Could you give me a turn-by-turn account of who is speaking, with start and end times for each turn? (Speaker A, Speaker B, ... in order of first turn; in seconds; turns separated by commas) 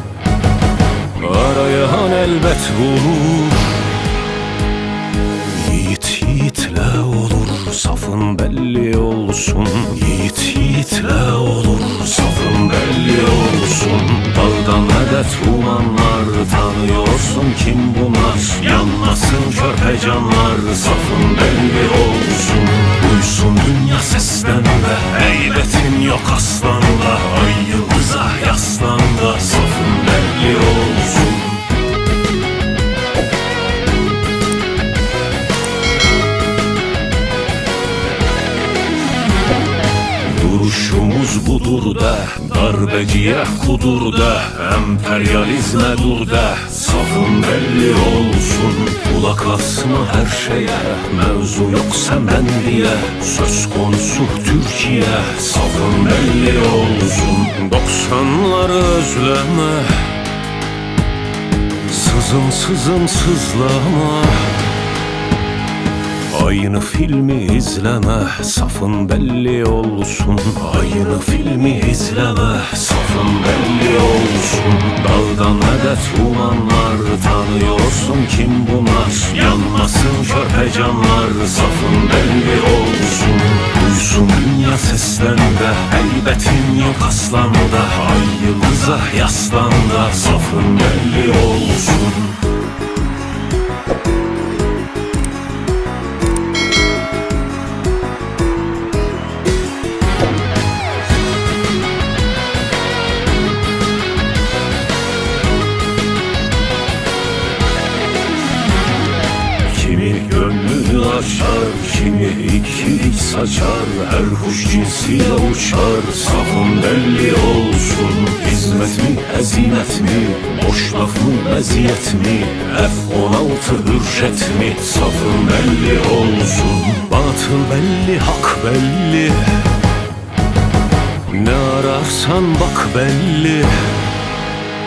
Speaker A: 1.2-3.8, Speaker A: 5.4-31.6, Speaker A: 40.2-60.2, Speaker A: 61.9-64.6, Speaker A: 66.3-92.4, Speaker A: 109.6-129.7, Speaker A: 131.3-134.0